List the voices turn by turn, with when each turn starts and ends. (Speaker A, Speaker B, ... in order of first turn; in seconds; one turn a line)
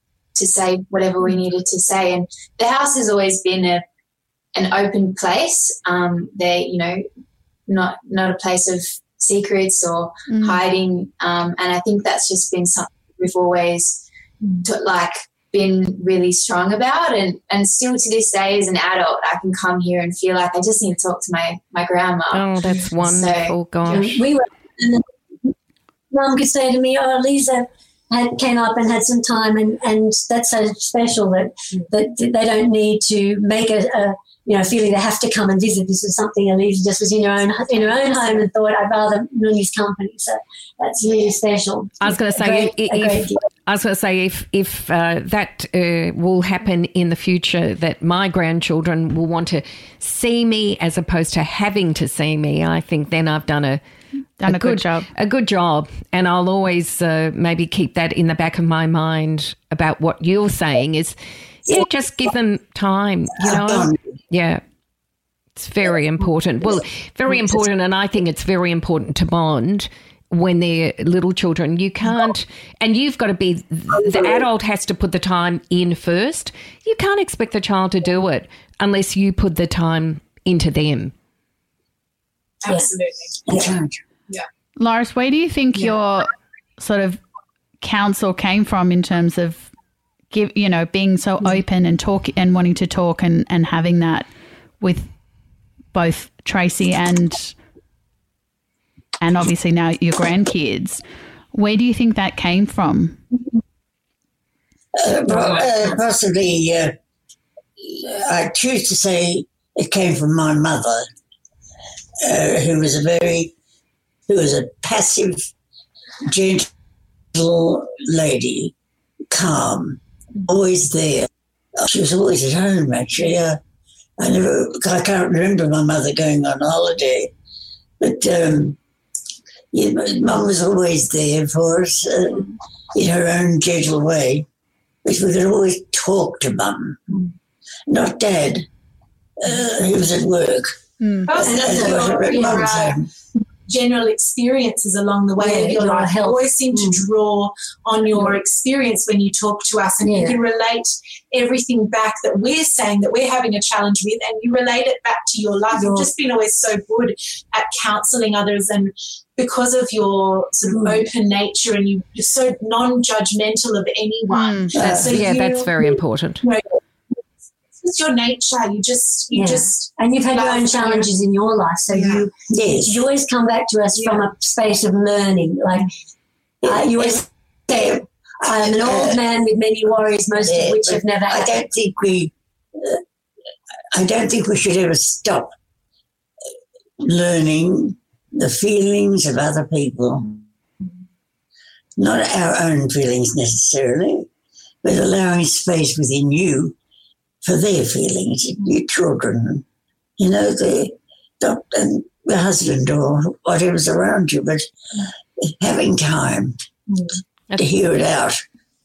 Speaker A: 0.3-3.8
Speaker A: 4.5-7.0
Speaker A: 7.7-14.0
Speaker B: 10.3-10.6
Speaker A: 14.6-23.6
Speaker C: 22.3-24.2
Speaker D: 23.8-25.5
Speaker D: 26.1-43.4
Speaker E: 37.7-38.5
Speaker C: 42.0-53.8
Speaker B: 54.4-55.1
Speaker C: 54.5-61.1
Speaker C: 61.7-64.6
Speaker F: 63.4-64.0
Speaker C: 65.5-81.1
Speaker E: 82.6-83.7
Speaker F: 83.5-84.0
Speaker B: 84.8-87.2
Speaker B: 87.8-89.7
Speaker B: 90.3-94.3
Speaker B: 94.8-95.1
Speaker B: 95.9-97.5
Speaker B: 99.2-101.0
Speaker B: 101.5-103.2
Speaker F: 105.0-106.9
Speaker F: 107.8-111.0
Speaker F: 112.2-113.5
Speaker F: 114.3-115.5
Speaker F: 116.2-116.7
Speaker F: 117.3-118.7
Speaker F: 119.3-123.6
Speaker F: 124.2-127.3
Speaker F: 128.0-128.8
Speaker F: 129.7-134.5
Speaker F: 135.0-137.2
Speaker F: 137.9-138.7
Speaker F: 139.4-140.8
Speaker B: 141.0-141.3
Speaker E: 141.3-143.0
Speaker D: 141.3-142.6
Speaker F: 141.4-143.1
Speaker E: 143.7-166.8
Speaker D: 145.4-147.0
Speaker D: 150.0-150.4
Speaker D: 155.7-156.1
Speaker D: 160.7-161.0
Speaker B: 164.3-164.8
Speaker F: 164.7-165.2
Speaker C: 164.8-166.4
Speaker E: 167.8-171.1
Speaker D: 169.3-172.3
Speaker E: 171.9-172.3
Speaker F: 172.5-173.0
Speaker D: 172.8-175.9
Speaker E: 173.9-174.3
Speaker F: 176.6-179.2
Speaker D: 176.6-181.6
Speaker F: 180.4-183.0
Speaker F: 183.9-185.5
Speaker F: 187.0-190.4
Speaker F: 192.0-194.3
Speaker F: 194.8-196.8
Speaker F: 197.4-199.6
Speaker F: 200.2-204.7
Speaker F: 205.4-206.6
Speaker F: 207.6-208.4